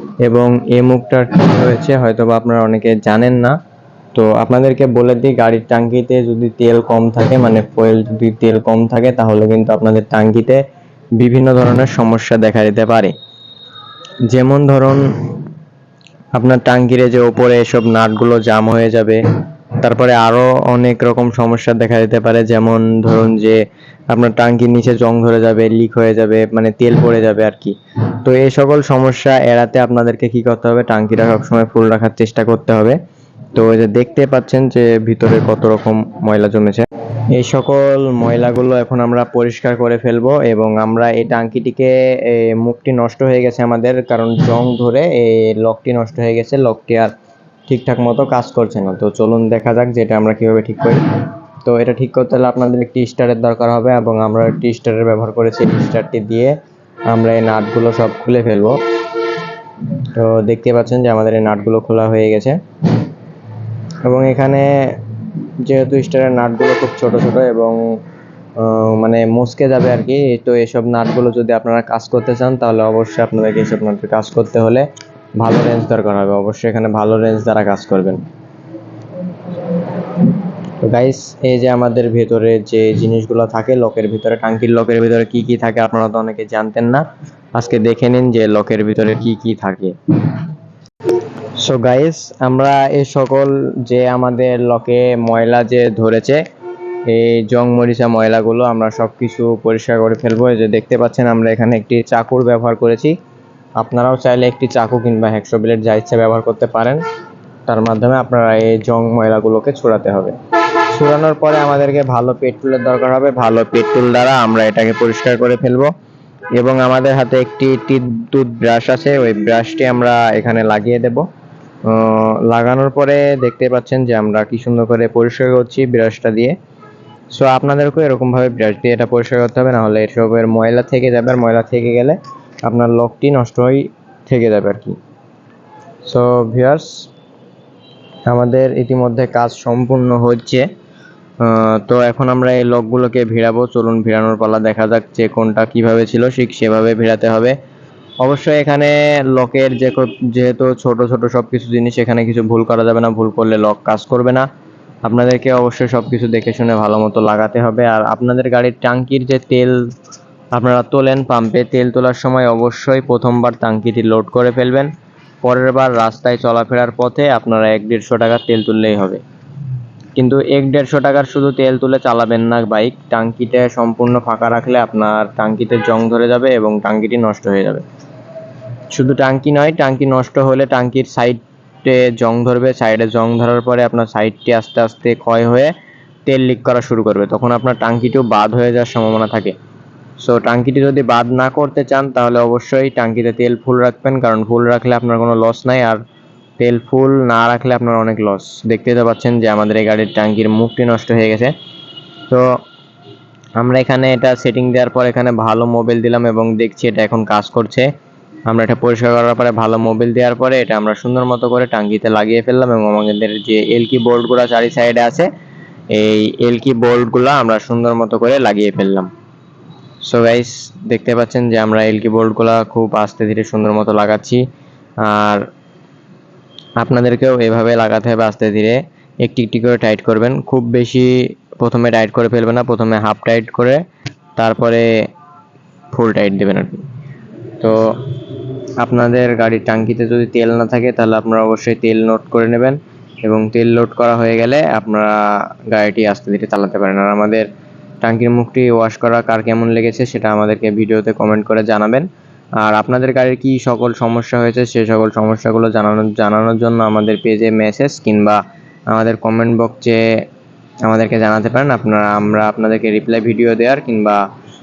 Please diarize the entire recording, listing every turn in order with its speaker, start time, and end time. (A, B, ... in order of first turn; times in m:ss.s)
0:00.2-0:03.6 A
0:04.2-0:10.6 A
0:11.2-0:13.1 A
0:14.3-0:15.1 A
0:16.3-0:19.2 A
0:19.8-0:33.0 A
0:33.6-0:47.1 A
0:47.7-0:56.6 A
0:57.1-0:58.8 A
1:00.1-1:02.6 A
1:04.0-1:05.0 A
1:05.6-1:07.8 A
1:08.6-1:14.9 A
1:15.4-1:18.2 A
1:20.8-1:30.4 A
1:31.6-1:36.4 A
1:37.1-1:43.2 A
1:43.8-1:47.0 A
1:47.7-1:50.4 A
1:50.9-1:55.9 A
1:56.6-2:01.2 A
2:01.9-2:06.6 A
2:07.3-2:15.0 A
2:16.1-2:17.1 A
2:18.3-2:20.7 A
2:21.4-2:27.6 A
2:28.2-2:34.5 A
2:35.0-2:39.8 A
2:40.5-2:44.9 A
2:45.4-2:49.2 A
2:50.2-2:57.8 A
2:58.9-3:05.7 A
3:06.3-3:09.6 A
3:10.2-3:16.0 A
3:16.6-3:21.5 A
3:23.6-3:27.9 A
3:28.5-3:35.3 A
3:35.9-3:39.1 A
3:40.0-3:44.4 A
3:45.0-3:45.5 A
3:46.8-3:53.8 A
3:54.4-3:54.9 A
3:55.9-3:56.8 A
3:58.8-4:07.5 A
4:08.0-4:12.1 A
4:12.6-4:18.4 A
4:18.9-4:20.0 A
4:20.8-4:24.2 A